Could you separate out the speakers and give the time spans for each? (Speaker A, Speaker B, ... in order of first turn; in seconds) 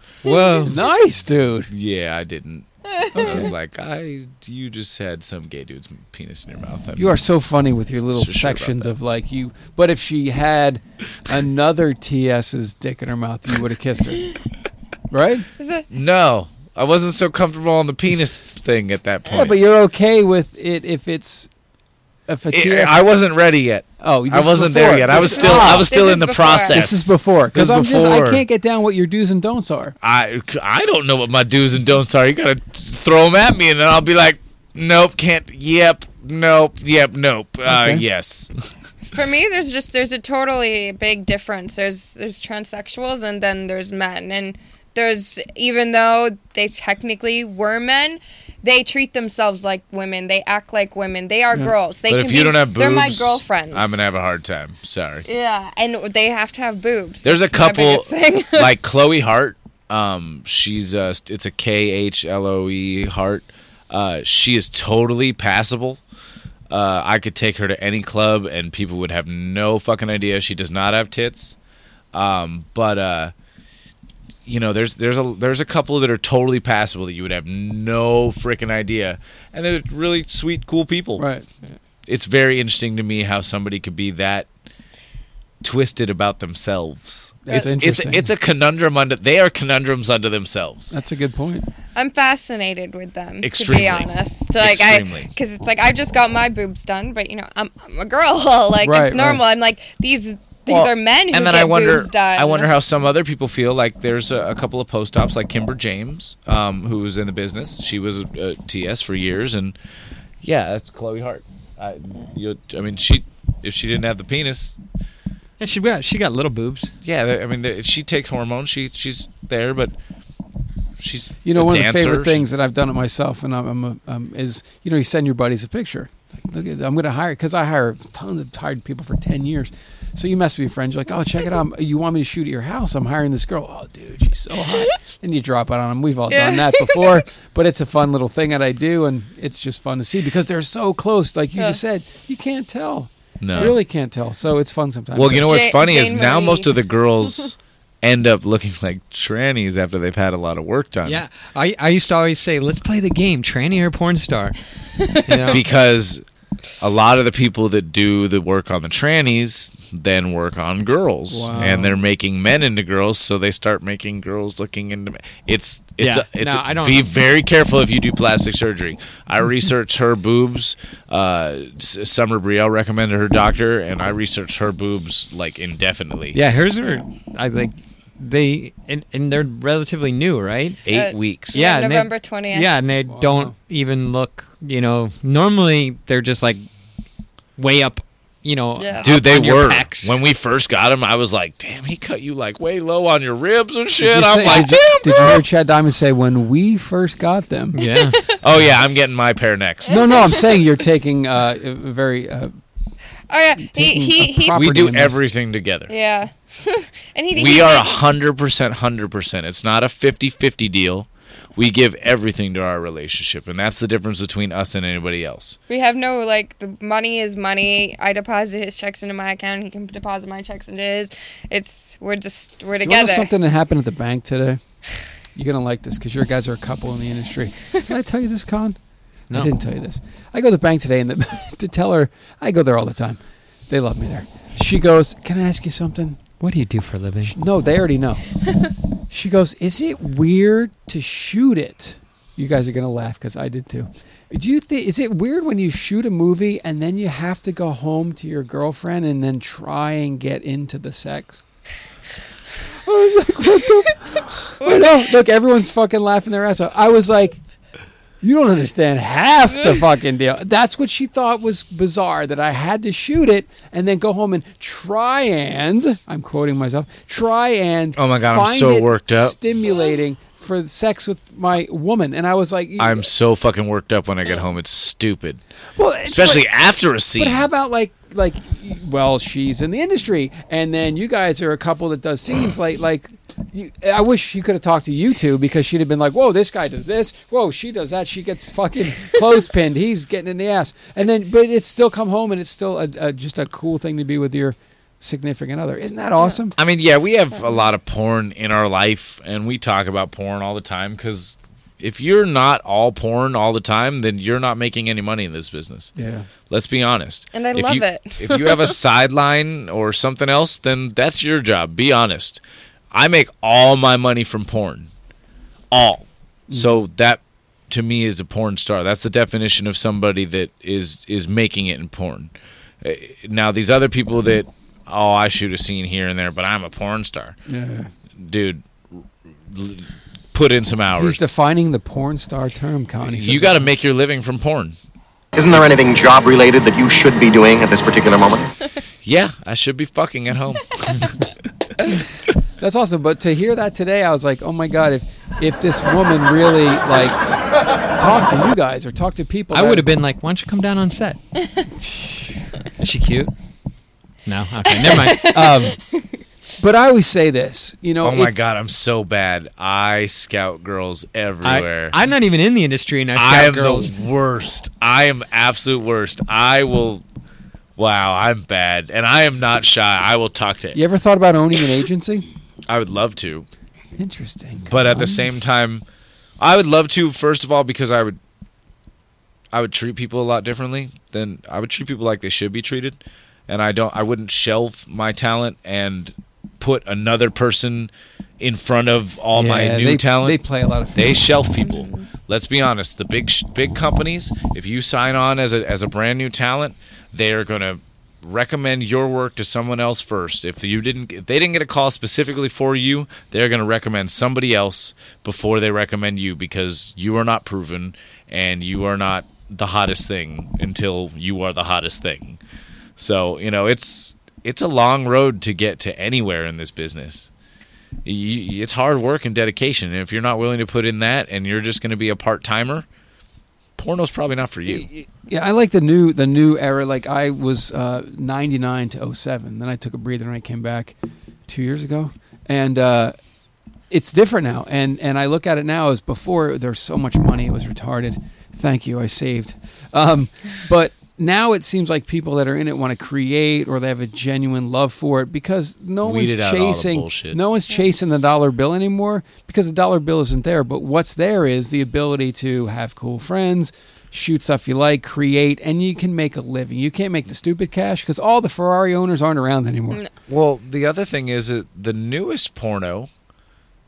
Speaker A: 0.2-0.8, 115.6-116.9, 151.0-154.5, 155.2-155.6, 166.0-167.1, 176.3-180.9, 181.5-186.6, 187.6-190.2, 197.7-198.2, 236.4-237.3, 349.5-351.2, 352.8-353.3, 354.2-355.8, 361.4-363.9
Speaker B: 0.2-0.7, 15.6-15.8, 25.1-26.9, 39.1-54.1, 55.2-58.7, 91.9-102.7, 136.3-137.2, 145.5-146.7, 180.9-182.7, 188.8-189.1, 194.7-195.1, 198.1-198.3, 199.8-200.6, 203.3-204.6, 205.9-208.0, 215.7-223.3, 254.6-254.9, 307.3-308.7, 354.8-356.1, 391.6-392.0
Speaker C: 0.7-1.7, 3.1-3.5, 7.0-14.2, 15.1-15.5, 19.3-21.5, 22.3-23.0, 24.0-25.9, 26.7-29.9, 37.7-38.0, 81.2-81.7, 87.4-88.3, 90.9-91.7, 98.8-99.4, 121.4-145.6, 161.3-162.0, 183.0-183.5, 194.0-197.8, 199.9-202.5, 203.6-205.2, 222.8-224.6, 225.3-228.8, 229.3-236.2, 237.2-238.2, 239.1-251.4, 252.8-257.4, 258.2-273.1, 275.8-276.4, 277.2-296.5, 305.9-306.3, 316.5-316.8, 327.5-327.9, 331.0-333.6, 342.6-347.2, 347.9-349.9, 351.8-352.4, 356.6-358.3, 370.7-372.2, 374.0-375.2, 389.3-391.6, 424.7-430.9, 431.5-433.1, 433.9-460.0
Speaker D: 1.7-7.3, 8.1-8.9, 15.9-19.6, 22.5-28.4, 30.0-38.5, 52.1-55.3, 57.2-66.0, 66.7-71.5, 72.1-73.3, 74.5-81.3, 82.0-84.5, 85.6-90.9, 93.4-95.3, 100.7-109.7, 110.4-114.8, 117.0-119.9, 121.0-122.5, 143.4-143.8, 145.1-151.2, 155.5-156.2, 156.8-176.4, 180.8-181.6, 189.0-195.0, 198.4-200.3, 204.5-205.9, 207.3-215.6, 267.9-269.4, 272.8-275.4, 276.1-277.5, 296.6-305.9, 306.5-312.4, 312.9-314.9, 315.7-322.3, 322.8-327.4, 328.2-331.2, 333.1-334.8, 339.0-341.2, 358.0-362.0, 363.1-367.0, 367.8-370.8, 372.7-373.5, 374.7-375.8, 376.4-378.2, 379.5-390.4, 390.9-412.4, 413.0-417.3, 418.0-422.9, 423.8-425.0, 446.0-447.4, 460.3-463.1
Speaker E: 335.3-338.4